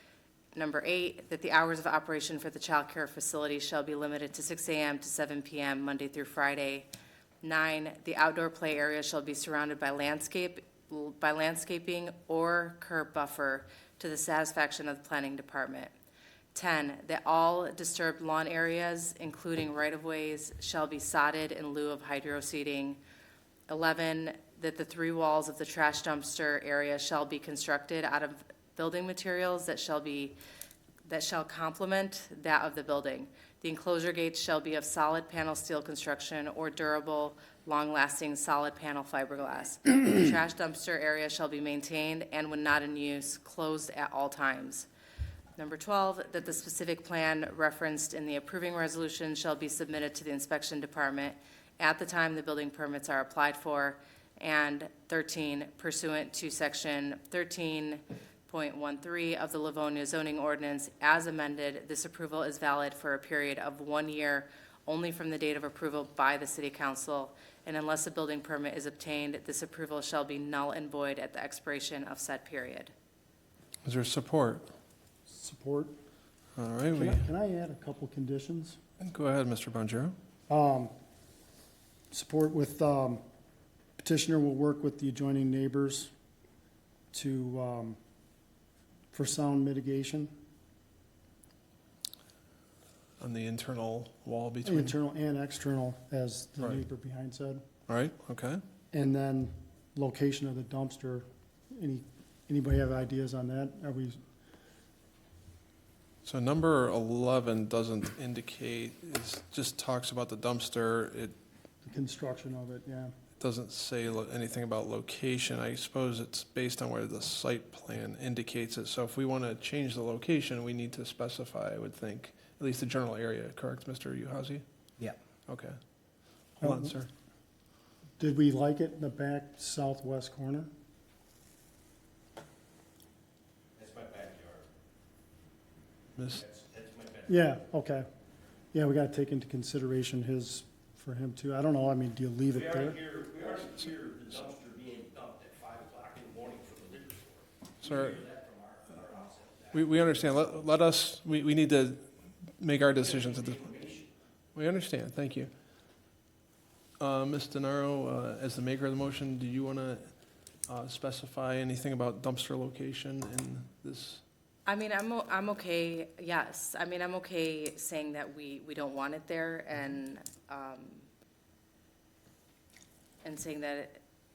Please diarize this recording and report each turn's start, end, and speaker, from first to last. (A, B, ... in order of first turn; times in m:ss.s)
0:00.5-0:06.9 A
0:07.4-0:15.9 A
0:16.5-0:23.0 A
0:23.7-0:30.4 A
0:31.0-0:44.9 A
0:45.6-1:12.9 A
1:13.8-1:14.6 B
1:15.3-1:15.9 C
1:16.6-1:17.2 B
1:16.9-1:18.8 C
1:19.0-1:20.1 B
1:20.5-1:20.9 C
1:22.1-1:23.2 C
1:24.0-1:26.1 C
1:27.1-1:28.0 C
1:29.1-1:30.3 C
1:33.2-1:34.9 B
1:34.6-1:37.6 C
1:37.9-1:38.6 B
1:38.9-1:44.2 C
1:46.2-1:51.4 B
1:51.8-1:53.1 C
1:53.4-2:04.6 B
2:05.5-2:05.8 B
2:06.6-2:07.1 B
2:06.6-2:06.9 C
2:08.2-2:10.7 C
2:13.8-2:14.6 D
2:16.2-2:16.4 B
2:16.4-2:17.3 D
2:17.3-2:18.0 C
2:18.7-2:23.0 C
2:22.6-2:30.4 D
2:27.8-2:28.2 B
2:29.7-2:32.0 B
2:32.6-2:33.7 B
2:33.2-2:34.0 D
2:34.5-2:35.5 B
2:37.0-2:40.1 B
2:40.7-2:44.2 B
2:44.6-2:51.0 A
2:53.2-2:54.0 A